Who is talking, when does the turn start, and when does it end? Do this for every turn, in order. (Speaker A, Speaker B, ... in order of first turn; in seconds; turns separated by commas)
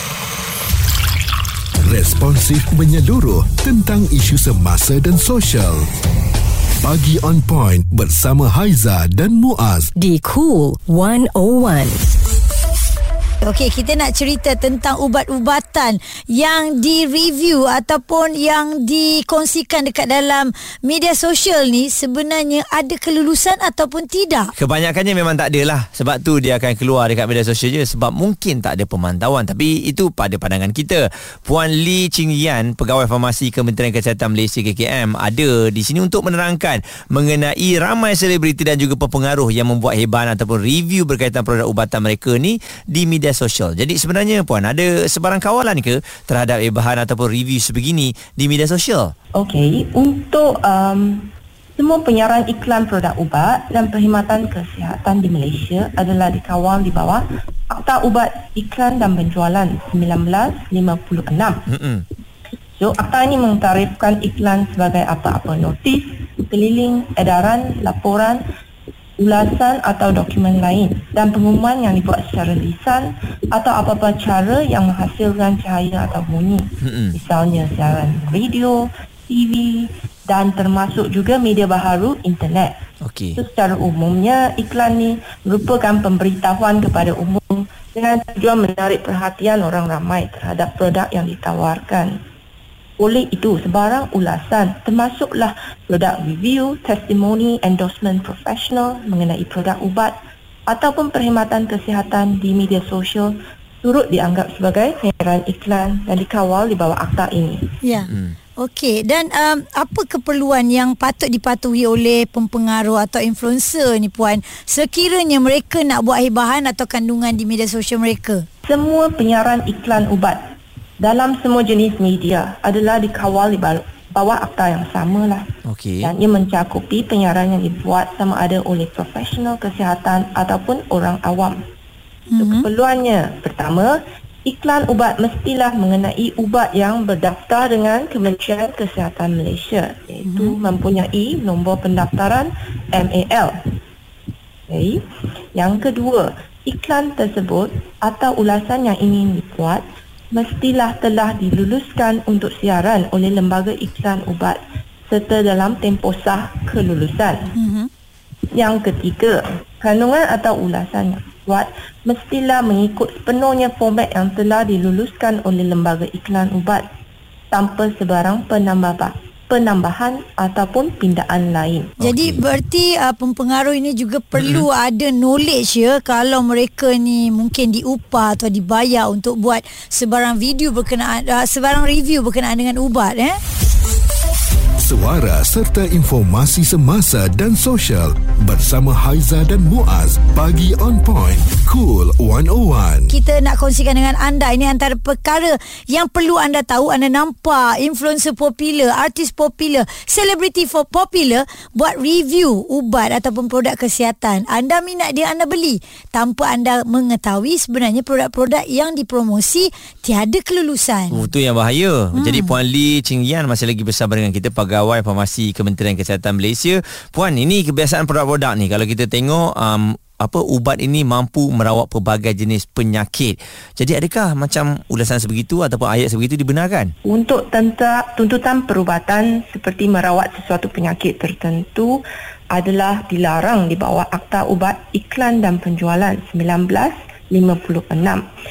Speaker A: 1.8-5.9, Speaker A: 6.8-9.9, Speaker B: 10.0-12.1, Speaker C: 13.4-24.5, Speaker D: 24.6-49.1, Speaker E: 49.4-61.6, Speaker D: 61.7-62.1, Speaker E: 62.8-68.4, Speaker E: 69.2-82.7, Speaker D: 76.8-77.2, Speaker D: 83.0-83.4, Speaker E: 83.4-92.2, Speaker E: 93.0-100.2, Speaker E: 100.7-107.6, Speaker C: 107.8-118.5, Speaker D: 108.1-108.3, Speaker E: 118.7-120.4, Speaker E: 121.0-125.5, Speaker D: 125.7-126.1, Speaker E: 126.0-131.6, Speaker C: 132.3-132.7, Speaker E: 132.4-143.5, Speaker C: 140.2-140.6, Speaker E: 144.7-145.0, Speaker E: 145.6-157.5, Speaker C: 157.6-157.9, Speaker E: 158.5-166.8, Speaker E: 167.5-171.9, Speaker D: 172.0-172.4, Speaker C: 172.0-183.4, Speaker D: 174.4-174.7, Speaker A: 184.8-193.1, Speaker C: 193.1-211.3, Speaker D: 211.1-226.9, Speaker C: 212.2-212.5, Speaker E: 227.1-238.2